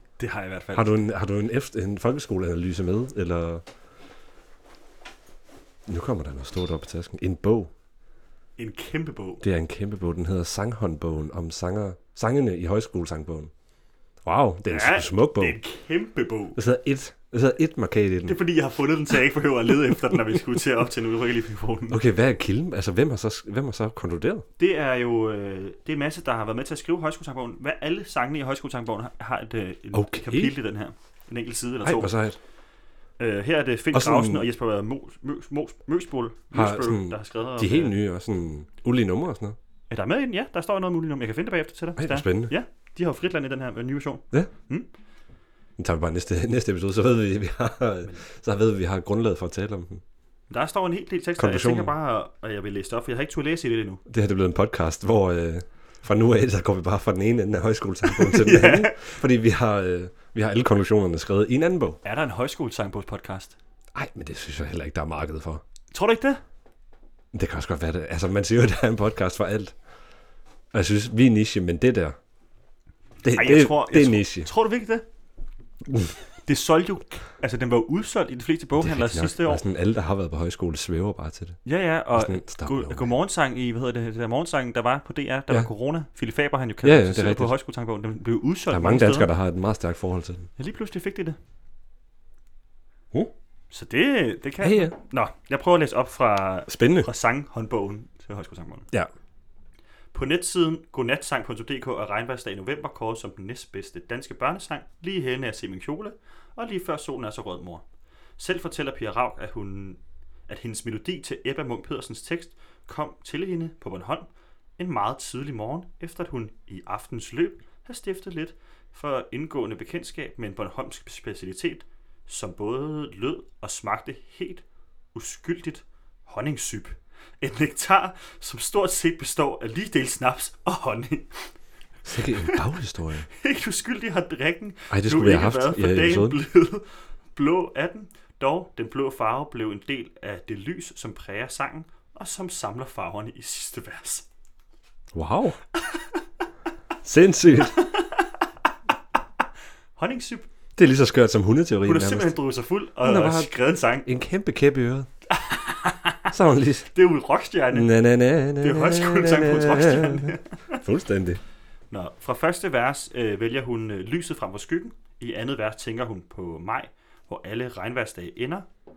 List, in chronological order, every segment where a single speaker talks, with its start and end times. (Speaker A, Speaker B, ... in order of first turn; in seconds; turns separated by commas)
Speaker A: 0.2-1.0, Speaker B: 0.7-3.6, Speaker B: 5.9-7.7, Speaker A: 8.6-9.4, Speaker B: 9.4-13.5, Speaker B: 14.2-15.6, Speaker A: 14.7-16.6, Speaker B: 16.6-18.4, Speaker A: 18.2-22.0, Speaker B: 21.9-24.4, Speaker A: 24.6-32.1, Speaker B: 29.9-30.5, Speaker B: 31.8-32.4, Speaker A: 33.2-38.0, Speaker B: 33.9-34.5, Speaker B: 36.5-39.5, Speaker A: 39.9-44.9, Speaker B: 42.0-42.5, Speaker B: 45.8-50.0, Speaker A: 50.5-54.0, Speaker B: 51.4-51.9, Speaker B: 54.1-62.0, Speaker A: 58.1-59.1, Speaker A: 62.0-63.5, Speaker B: 63.9-65.6, Speaker A: 65.9-66.4, Speaker B: 67.3-69.8, Speaker B: 70.7-72.2, Speaker B: 73.2-74.5, Speaker A: 73.3-75.0, Speaker A: 76.4-79.6, Speaker B: 78.8-81.6, Speaker A: 81.6-89.3, Speaker B: 82.1-83.1, Speaker B: 86.8-87.5, Speaker B: 88.7-90.5, Speaker A: 90.6-91.4, Speaker A: 93.7-98.9, Speaker B: 94.6-94.9, Speaker B: 96.7-97.1, Speaker A: 100.1-107.8, Speaker A: 108.4-131.6, Speaker B: 132.0-133.3, Speaker A: 133.3-144.2, Speaker B: 134.9-136.4, Speaker B: 145.1-145.6, Speaker A: 145.8-146.2, Speaker B: 147.0-147.8, Speaker A: 147.7-148.4, Speaker A: 150.0-150.5, Speaker B: 150.8-152.3, Speaker A: 151.8-154.1, Speaker B: 153.0-155.1, Speaker A: 155.3-156.3, Speaker B: 156.3-156.9, Speaker A: 156.9-157.9, Speaker B: 157.7-161.4, Speaker A: 158.6-160.8, Speaker A: 161.9-168.7